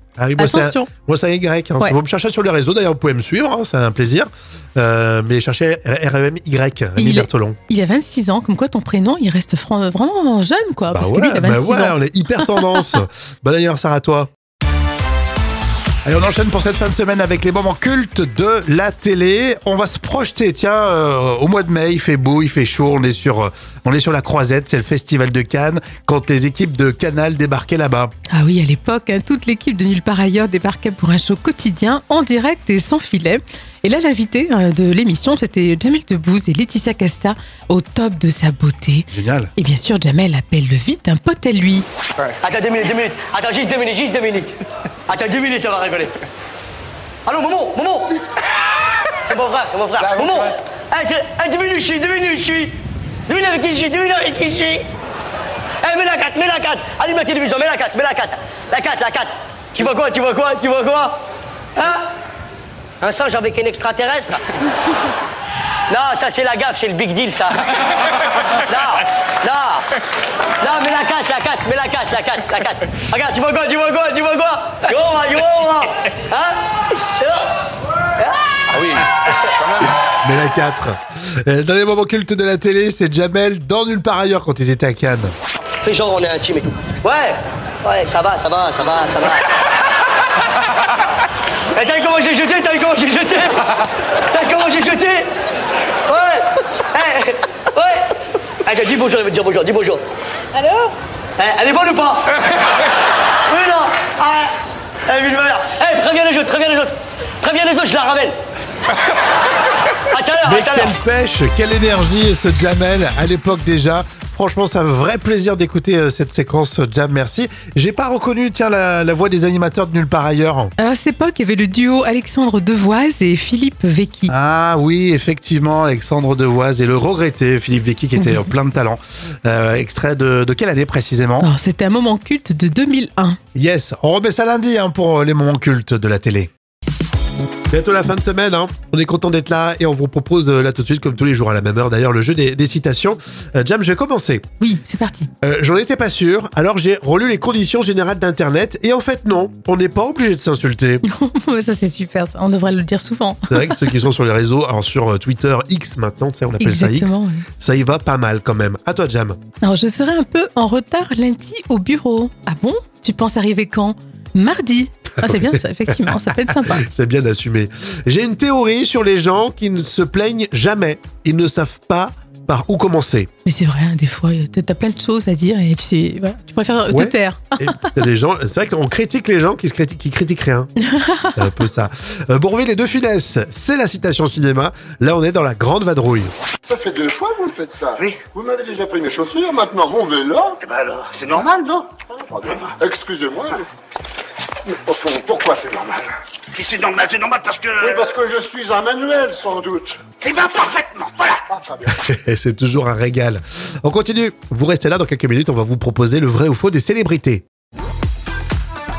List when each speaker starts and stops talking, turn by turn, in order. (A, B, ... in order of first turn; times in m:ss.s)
0:00.2-0:07.6 A
0:00.4-0:00.9 B
0:07.0-0:12.9 B
0:10.9-0:14.3 A
0:16.0-0:28.1 A
0:28.3-0:41.8 B
0:39.1-0:39.5 A
0:42.4-0:46.2 C
0:47.2-0:48.2 C
0:49.1-0:52.7 C
0:53.3-0:54.8 C
0:55.8-1:01.2 C
1:01.8-1:02.1 C
1:03.0-1:04.5 C
1:05.9-1:09.9 C
1:10.6-1:17.5 C
1:18.2-1:19.4 C
1:20.2-1:25.3 A
1:25.8-1:29.5 C
1:31.7-1:33.7 C
1:34.3-1:35.3 C
1:36.0-1:40.0 C
1:40.6-1:42.6 C
1:43.5-1:48.4 C
1:50.1-1:50.9 C
1:50.4-2:00.7 A
2:00.8-2:04.3 B
2:04.3-2:11.5 A
2:08.2-2:08.5 B
2:11.4-2:13.4 B
2:13.5-2:16.5 A
2:17.7-2:24.4 A
2:24.6-2:25.3 B
2:25.4-2:31.0 A
2:31.0-2:34.0 B
2:33.5-2:39.4 A
2:36.6-2:37.4 B
2:39.6-2:46.8 B
2:45.2-2:53.3 A
2:53.4-2:57.8 B
2:56.9-3:00.7 A
3:00.8-3:01.4 B
3:01.3-3:06.3 A
3:06.7-3:10.6 D
3:10.7-3:11.9 E
3:12.1-3:13.7 D
3:14.6-3:16.1 D
3:16.6-3:18.0 E
3:17.8-3:20.7 D
3:20.2-3:21.3 E
3:21.2-3:21.9 D
3:21.8-3:27.4 A